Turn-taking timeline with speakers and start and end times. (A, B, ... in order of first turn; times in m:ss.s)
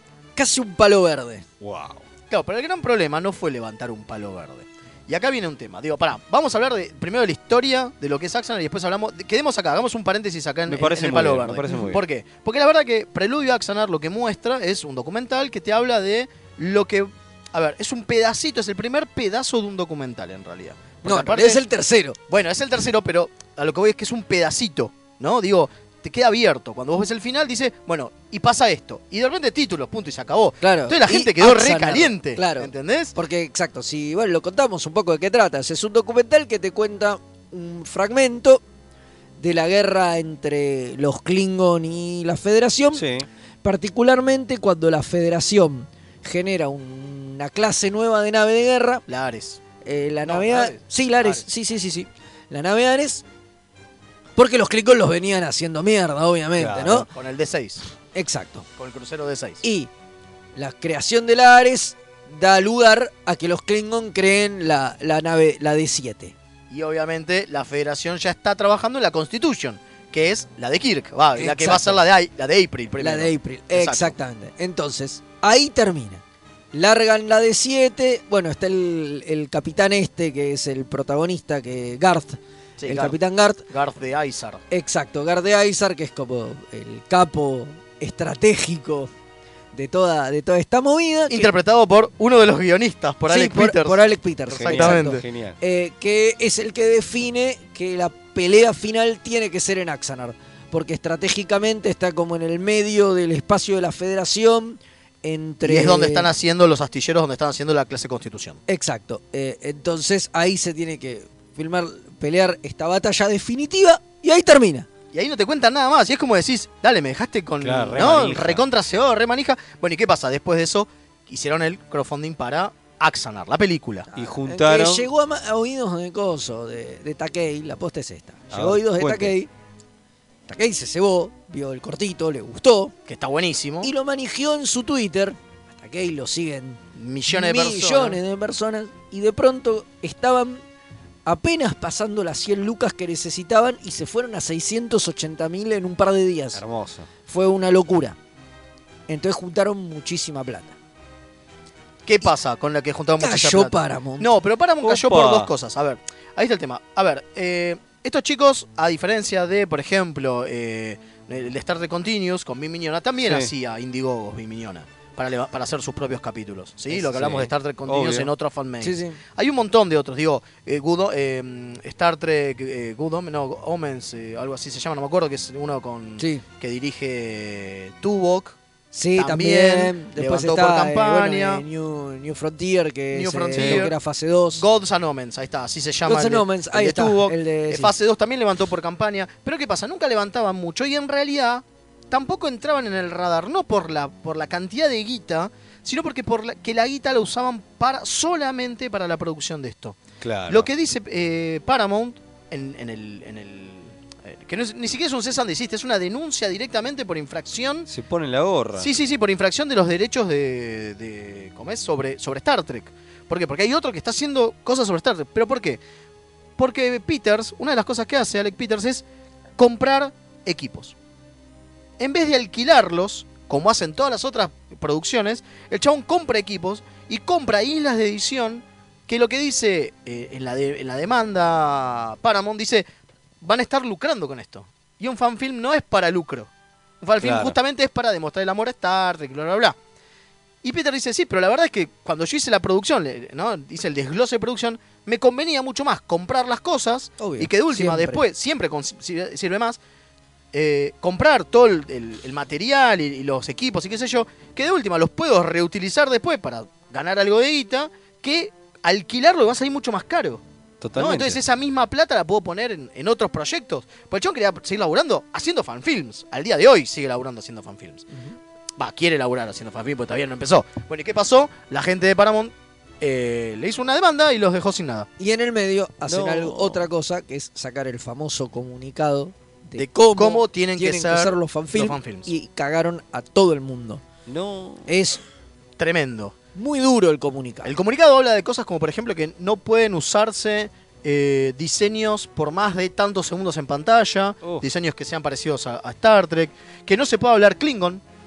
0:00.4-0:01.4 A
0:01.6-0:02.0 B
0:02.3-0:21.6 C
0:10.7-0:12.0 B
0:21.0-0:22.2 A
0:22.3-0:33.1 C
0:30.6-0:38.6 A
0:39.4-0:43.0 A
0:42.9-0:43.3 B
0:43.6-0:49.0 A
0:49.1-0:49.6 C
0:49.8-0:53.2 A
0:50.3-0:51.4 C
0:54.4-0:57.1 A
0:56.6-0:57.0 B
0:57.1-0:57.8 C
0:58.2-0:58.7 A
0:58.8-0:59.6 C
0:59.6-0:59.9 A
1:00.6-1:06.3 A
1:06.7-1:14.2 C
1:11.4-1:12.0 A
1:13.0-1:16.2 A
1:16.7-1:23.6 A
1:22.8-1:23.2 C
1:23.7-1:24.6 C
1:24.7-1:29.1 A
1:29.7-1:31.5 A
1:31.3-1:34.0 C
1:33.3-1:46.3 A
1:34.5-1:35.2 C
1:34.5-1:35.6 B
1:45.6-1:48.6 C
1:48.7-1:54.9 A
1:55.1-2:04.1 C
1:57.6-1:58.6 B
2:04.1-2:09.5 A
2:04.2-2:05.1 B
2:08.5-2:09.4 B
2:10.5-2:12.9 A
2:13.1-2:13.9 C
2:13.8-2:20.6 A
2:17.0-2:18.2 C
2:21.3-2:26.6 A
2:26.6-2:27.1 B
2:27.3-2:28.2 A
2:29.1-2:30.7 A
2:32.0-2:58.6 C
2:33.2-2:34.3 A
2:34.8-2:35.5 B
2:43.2-2:43.5 B
2:47.1-2:48.3 B
2:48.8-2:49.2 A
2:56.2-2:56.4 A
2:58.9-3:04.6 A
2:59.2-3:01.6 C
3:03.1-3:04.0 C
3:03.6-3:03.8 B
3:04.6-3:27.9 C
3:06.0-3:07.9 A
3:20.2-3:20.7 B
3:27.9-3:28.9 B
3:28.8-3:35.8 C
3:36.6-3:39.0 C
3:39.6-3:41.0 C
3:42.0-3:52.9 C
3:53.4-3:56.5 C
3:57.0-3:59.8 C
3:57.2-3:57.6 B
4:00.6-4:09.8 C
4:07.2-4:08.2 A
4:10.5-4:20.4 C
4:20.8-4:21.4 B
4:21.0-4:28.0 C
4:28.8-4:35.1 C
4:35.2-4:44.0 A
4:36.1-4:36.8 B
4:39.8-4:42.3 C
4:44.3-4:44.9 B
4:44.9-4:45.2 A
4:45.8-4:46.4 C
4:46.6-4:47.7 A
4:47.6-4:58.0 C